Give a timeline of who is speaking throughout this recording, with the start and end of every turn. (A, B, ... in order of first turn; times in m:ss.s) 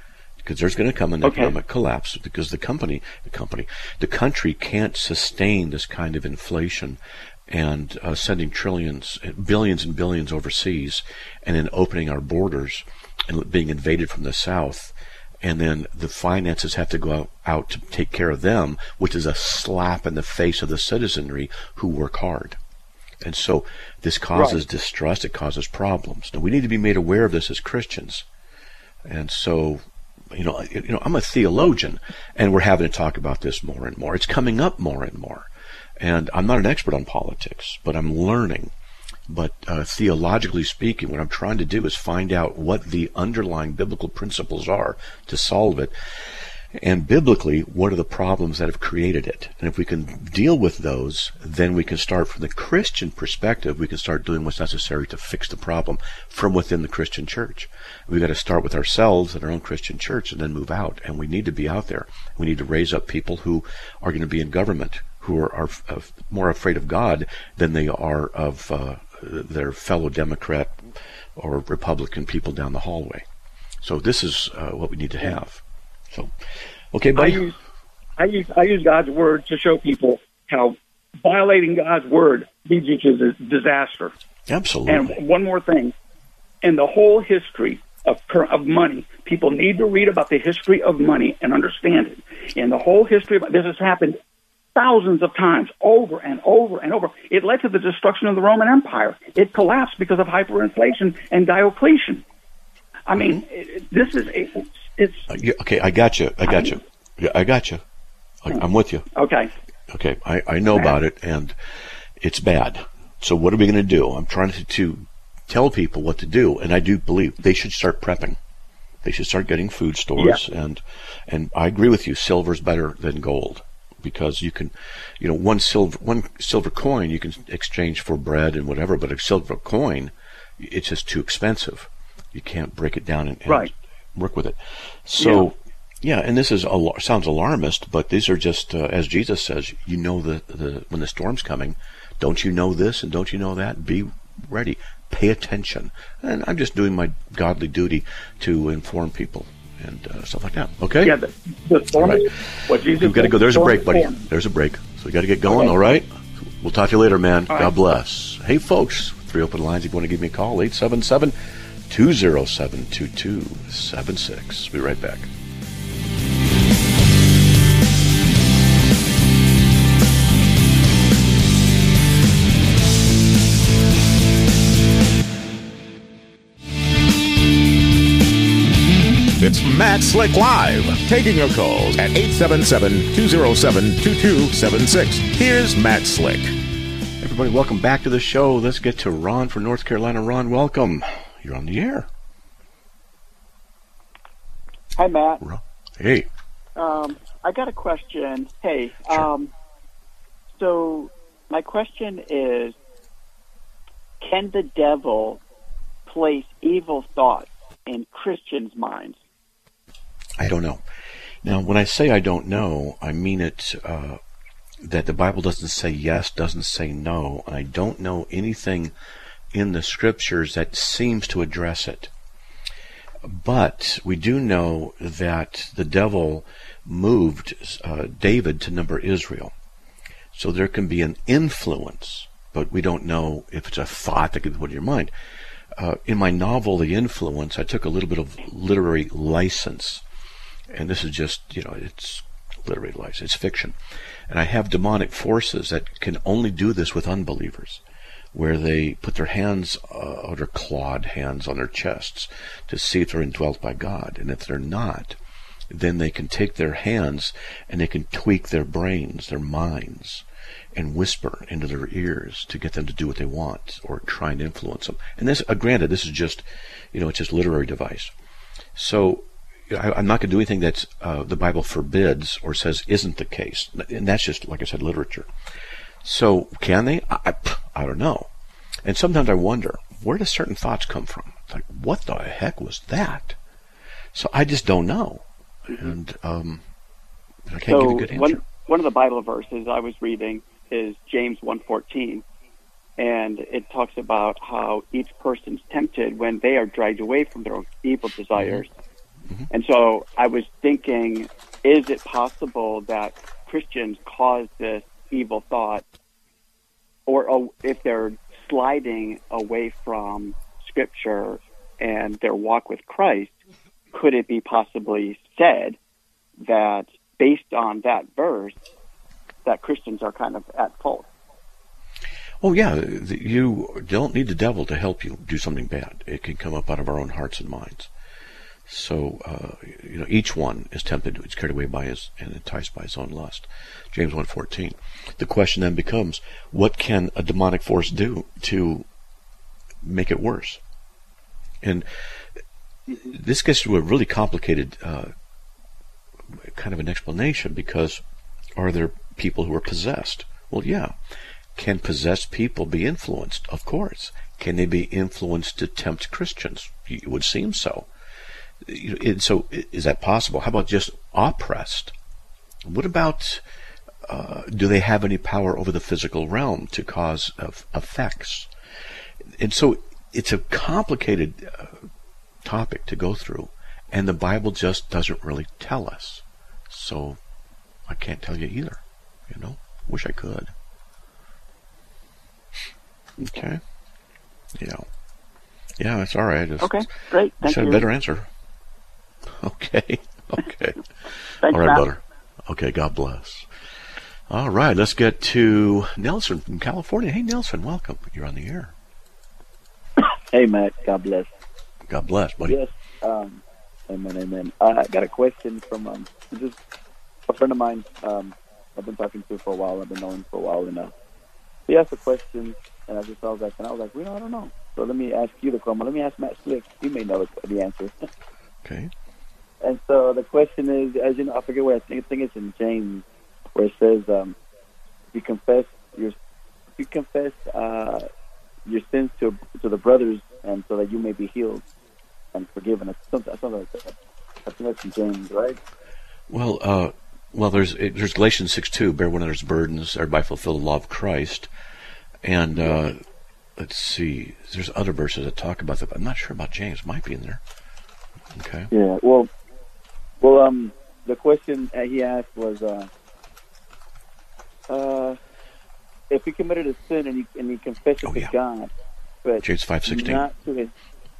0:00.4-0:22.6 A
0:01.2-0:01.6 B
0:23.2-0:28.2 A
0:29.1-0:35.5 A
0:36.0-0:38.7 A
0:39.3-0:45.9 A
0:46.7-1:10.8 A
1:11.4-1:13.2 A
1:13.8-1:16.3 A
1:16.9-1:17.5 A
1:17.2-1:17.5 B
1:18.2-1:24.1 B
1:24.5-1:25.2 A
1:24.9-1:25.9 B
1:26.6-1:34.2 B
1:34.7-1:42.2 B
1:43.1-1:45.2 B
1:45.3-1:47.8 A
1:46.4-1:46.8 B
1:48.4-1:49.1 A
1:49.1-1:49.5 B
1:49.9-1:51.5 A
1:50.7-1:51.0 B
1:52.2-1:58.4 A
1:59.0-2:31.1 A
2:15.2-2:15.5 B
2:31.0-2:34.2 B
2:31.9-2:36.1 A
2:35.4-2:36.0 B
2:36.6-2:41.3 A
2:37.5-2:37.8 B
2:41.9-2:45.3 A
2:59.4-3:06.5 C
3:07.2-3:12.1 A
3:15.0-3:15.4 D
3:15.4-3:16.3 A
3:16.8-3:19.5 D
3:20.6-3:22.8 D
3:24.2-3:25.4 D
3:26.0-3:29.2 D
3:30.4-3:30.8 A
3:31.4-3:34.2 A
3:34.8-3:38.9 A
3:39.5-3:42.1 A
3:43.2-3:49.5 A
3:50.3-3:55.1 A
3:55.8-4:00.0 A
4:00.7-4:03.8 A
4:04.3-4:07.8 A
4:08.3-4:15.2 A
4:15.7-4:28.1 A
4:28.8-4:35.3 A
4:36.0-4:38.3 A
4:38.8-4:43.4 A
4:44.1-4:46.6 A
4:47.5-4:48.4 A
4:47.7-4:52.2 D
4:53.0-4:58.7 D
4:58.3-4:58.6 A
4:59.5-5:05.8 D
5:07.1-5:13.3 D
5:13.9-5:15.8 D
5:16.4-5:18.6 D
5:19.4-5:21.1 D
5:22.4-5:27.9 A
5:28.7-5:38.8 A
5:39.8-5:40.6 A
5:42.9-5:45.1 A
5:46.5-5:48.0 A
5:48.6-5:50.9 A
5:51.6-5:57.9 A
5:58.6-6:01.9 A
6:02.6-6:03.4 A
6:04.0-6:08.5 A
6:09.4-6:11.8 A
6:12.4-6:17.2 A
6:17.9-6:20.5 A
6:23.2-6:23.6 A
6:24.6-6:24.8 A
6:25.8-6:28.3 A
6:26.6-6:27.9 D
6:29.4-6:30.8 A
6:31.4-6:31.9 D
6:31.4-6:33.5 A
6:34.3-6:38.7 A
6:40.3-6:41.3 E
6:41.9-6:42.6 A
6:42.4-6:46.6 E
6:47.3-6:50.9 E
6:51.7-6:58.1 E
6:58.6-6:58.9 A
6:59.6-7:04.4 E
7:05.1-7:06.2 E
7:06.8-7:08.1 E
7:08.7-7:11.6 E
7:12.3-7:13.9 E
7:14.4-7:15.6 E
7:16.3-7:21.5 A
7:22.2-7:23.0 A
7:23.6-7:27.4 A
7:28.4-7:28.7 A
7:28.7-7:29.3 E
7:30.2-7:32.9 E
7:34.7-7:35.2 E
7:36.1-7:38.7 E
7:38.0-7:38.3 A
7:39.2-7:40.7 E
7:39.4-7:40.2 A